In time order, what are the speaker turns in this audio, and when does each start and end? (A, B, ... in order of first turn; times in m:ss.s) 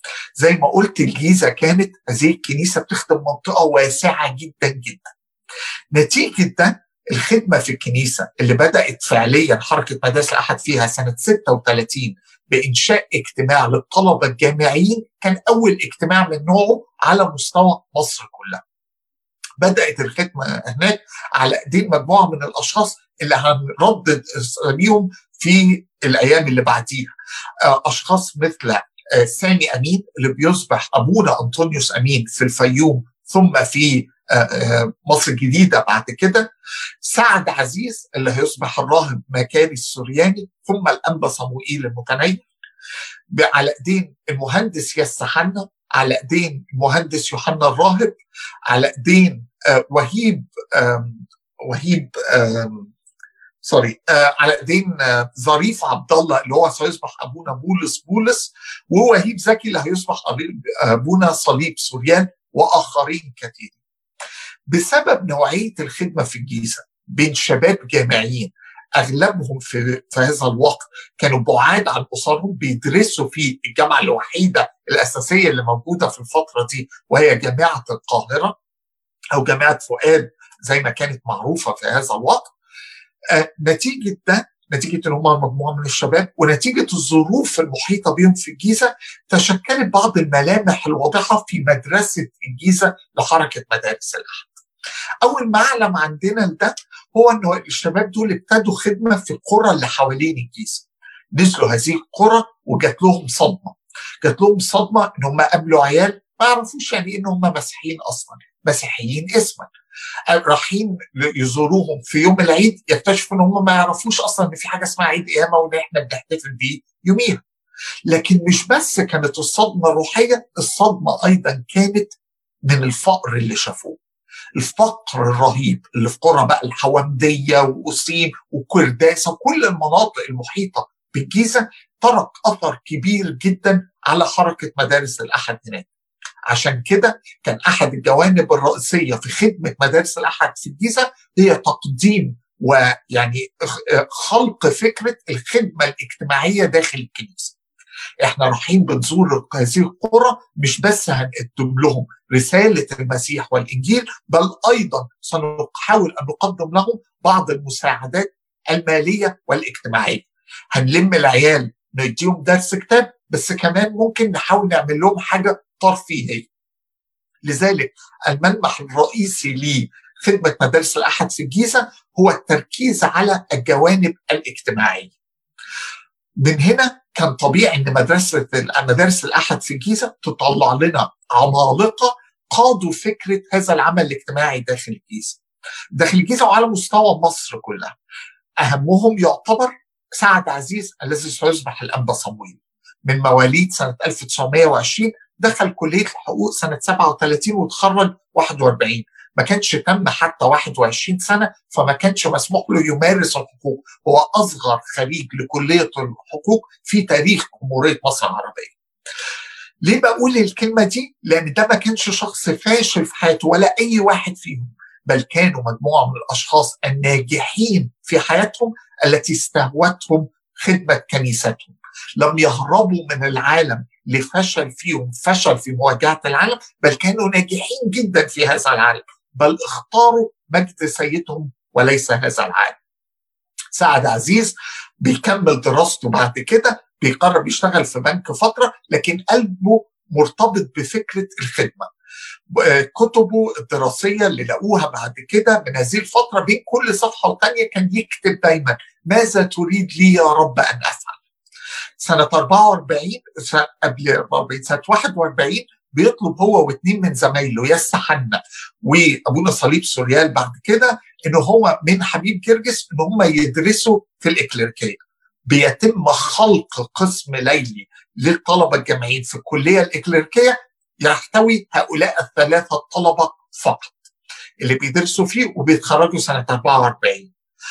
0:00.4-0:05.1 A
0:05.9-0:18.6 A
0:19.6-0:27.1 A
0:27.7-0:36.5 A
0:37.0-0:42.4 A
0:43.3-0:48.2 A
0:48.7-0:52.9 A
0:53.6-1:03.8 A
1:04.7-1:18.5 A
1:19.4-1:22.5 A
1:23.3-1:34.5 A
1:35.2-1:40.8 A
1:41.4-1:49.7 A
1:50.3-1:57.4 A
1:58.1-2:02.1 A
2:02.6-2:04.0 A
2:04.6-2:15.9 A
2:16.5-2:27.5 A
2:28.2-2:46.5 A
2:47.5-2:55.1 A
2:56.4-3:05.4 A
3:05.9-3:07.9 A
3:08.6-3:28.7 A
3:29.8-3:52.8 A
3:53.8-4:01.9 A
4:02.5-4:11.2 A
4:12.0-4:34.0 A
4:34.6-4:37.3 A